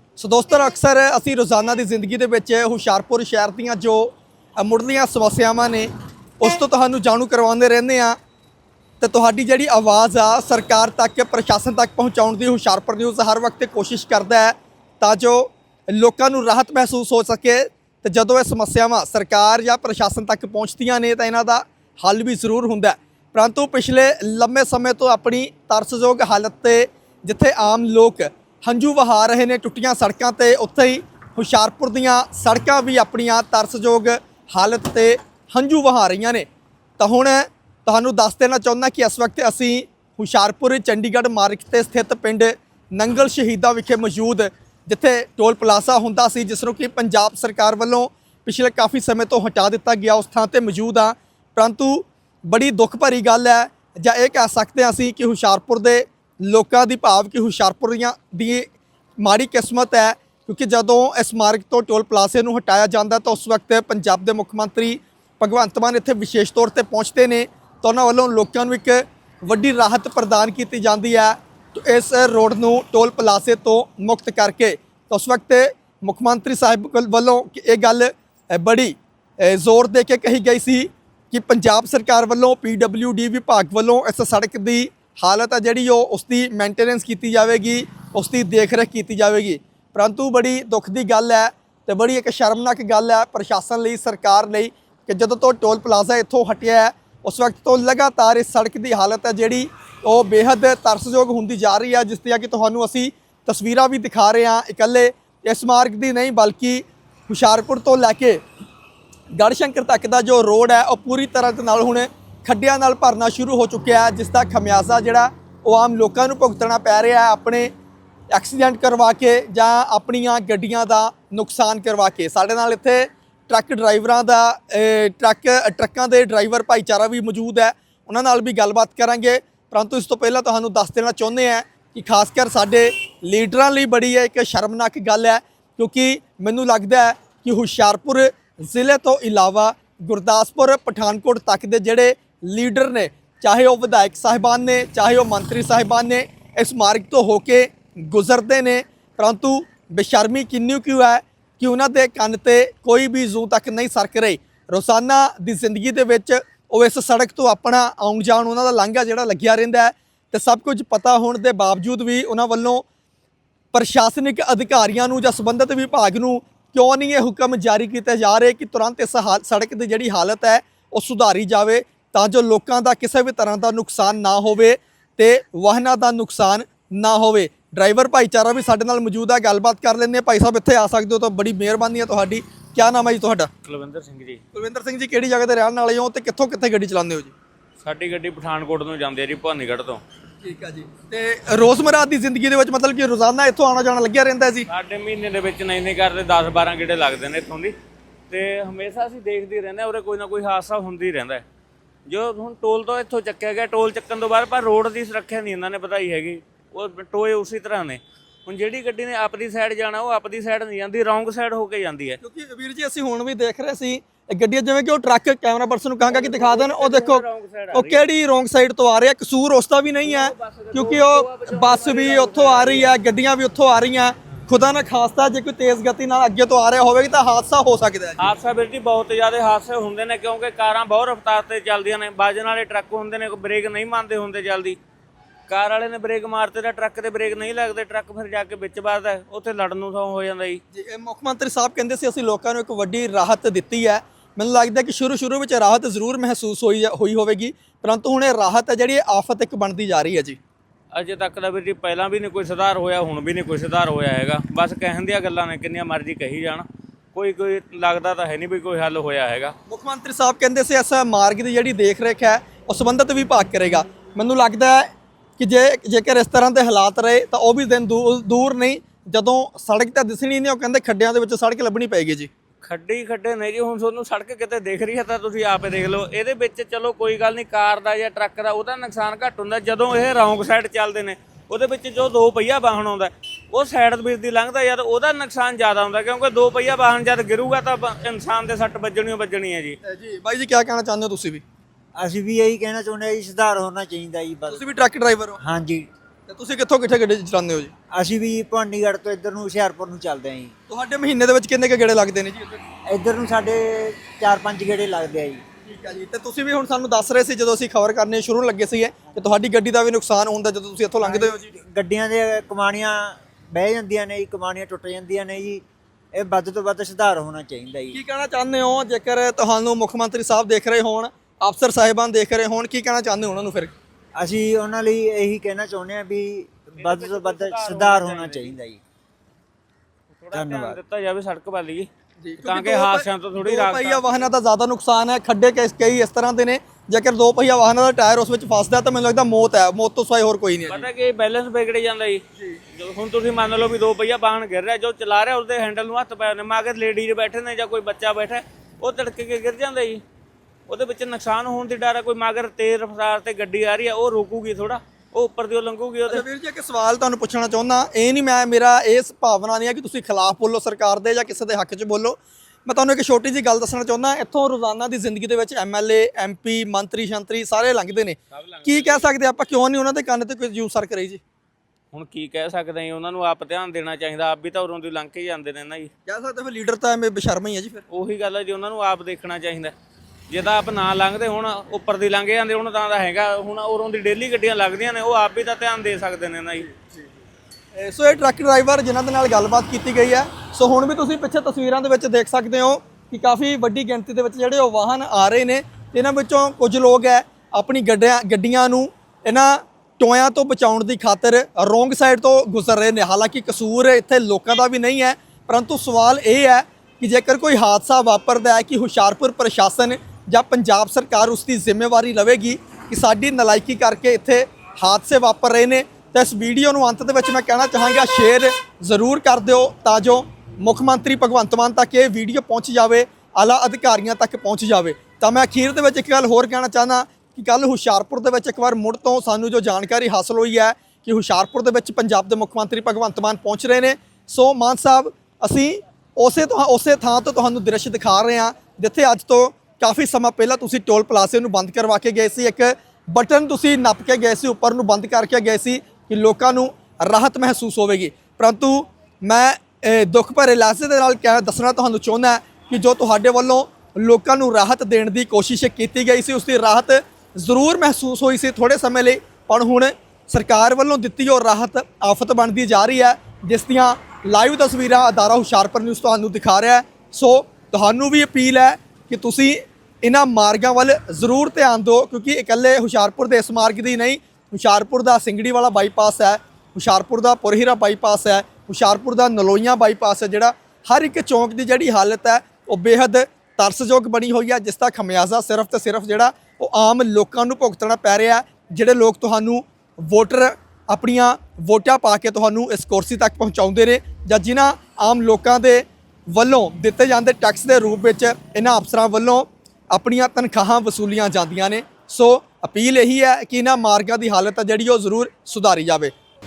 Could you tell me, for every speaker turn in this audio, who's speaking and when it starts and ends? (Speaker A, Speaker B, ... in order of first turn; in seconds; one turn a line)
Speaker A: 0.2-5.9
Speaker A: 6.4-8.2
Speaker A: 9.0-36.5
Speaker A: 37.0-58.7
Speaker A: 59.2-108.4
Speaker A: 109.4-117.7
Speaker A: 118.3-162.8
Speaker A: 163.7-183.5
Speaker B: 183.6-184.4
Speaker A: 184.5-187.3
Speaker B: 187.8-190.0
Speaker A: 190.4-194.7
Speaker B: 194.7-197.7
Speaker B: 198.3-201.4
Speaker B: 202.1-212.2
Speaker A: 212.2-228.3
Speaker B: 216.1-218.1
Speaker B: 220.1-222.9
Speaker B: 228.2-234.8
Speaker B: 235.5-240.6
Speaker A: 240.7-250.4
Speaker B: 250.9-259.5
Speaker A: 259.7-272.3
Speaker B: 272.6-289.8
Speaker A: 289.8-291.4
Speaker C: 292.0-294.6
Speaker A: 294.5-295.4
Speaker C: 295.4-295.9
Speaker A: 296.3-297.7
Speaker C: 297.9-300.5
Speaker A: 300.7-302.6
Speaker C: 302.9-305.4
Speaker A: 305.6-311.5
Speaker C: 311.0-318.0
Speaker A: 317.9-323.7
Speaker C: 324.2-328.8
Speaker B: 326.8-328.6
Speaker B: 330.1-331.9
Speaker C: 330.3-330.8
Speaker A: 332.2-340.9
Speaker B: 332.4-334.3
Speaker B: 340.7-342.2
Speaker B: 342.7-350.0
Speaker B: 350.7-356.2
Speaker A: 356.1-371.2
Speaker B: 368.3-369.1
Speaker B: 371.9-375.9
Speaker A: 376.1-377.9
Speaker B: 377.9-379.7
Speaker B: 380.3-386.7
Speaker A: 386.7-387.0
Speaker A: 387.8-506.1